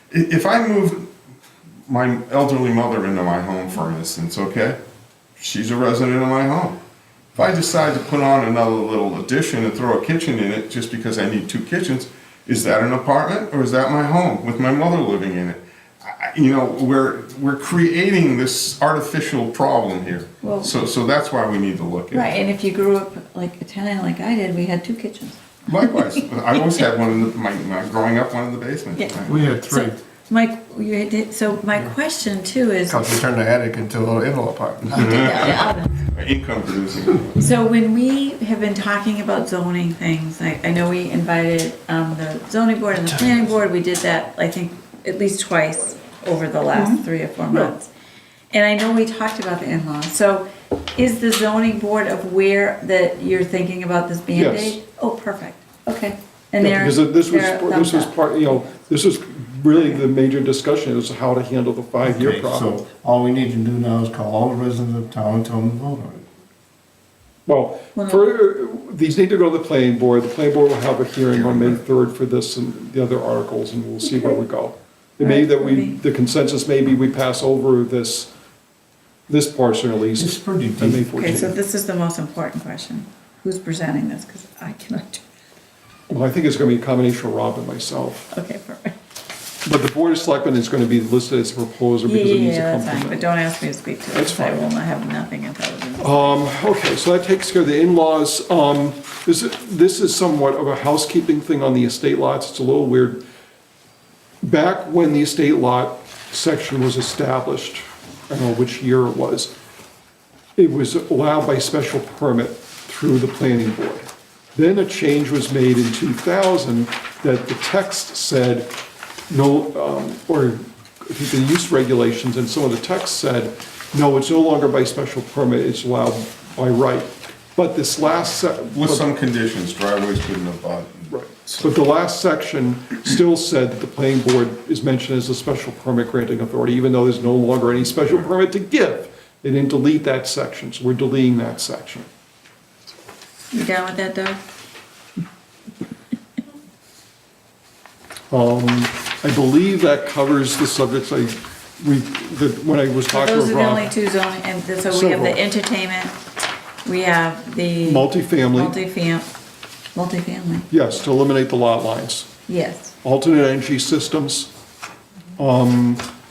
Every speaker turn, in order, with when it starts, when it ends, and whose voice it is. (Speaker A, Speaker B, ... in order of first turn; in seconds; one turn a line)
Speaker A: 0.1-1.1
Speaker A: 1.9-4.8
Speaker A: 5.4-6.8
Speaker A: 7.3-22.4
Speaker B: 20.4-20.7
Speaker B: 22.1-26.2
Speaker A: 25.7-29.4
Speaker B: 29.0-33.1
Speaker C: 29.3-30.0
Speaker C: 32.9-35.2
Speaker A: 34.9-37.4
Speaker B: 34.9-35.9
Speaker B: 37.4-47.9
Speaker B: 48.5-58.7
Speaker D: 54.3-54.8
Speaker D: 56.6-62.7
Speaker C: 62.0-66.2
Speaker D: 67.5-78.3
Speaker B: 68.0-68.3
Speaker A: 71.3-71.8
Speaker B: 75.2-76.0
Speaker D: 79.3-81.5
Speaker C: 80.2-81.1
Speaker B: 81.2-85.2
Speaker D: 86.1-88.3
Speaker B: 88.3-88.9
Speaker D: 89.7-93.4
Speaker B: 92.0-96.4
Speaker D: 94.1-94.7
Speaker D: 96.0-103.2
Speaker D: 104.4-109.5
Speaker D: 110.6-118.7
Speaker D: 119.3-129.1
Speaker A: 128.7-131.8
Speaker D: 131.1-142.1
Speaker B: 143.5-144.4
Speaker D: 148.3-153.9
Speaker B: 153.1-156.1
Speaker D: 154.9-155.4
Speaker B: 156.8-159.3
Speaker D: 157.8-158.8
Speaker B: 159.9-160.7
Speaker D: 160.7-162.3
Speaker B: 162.5-162.9
Speaker D: 163.0-164.5
Speaker D: 165.4-166.1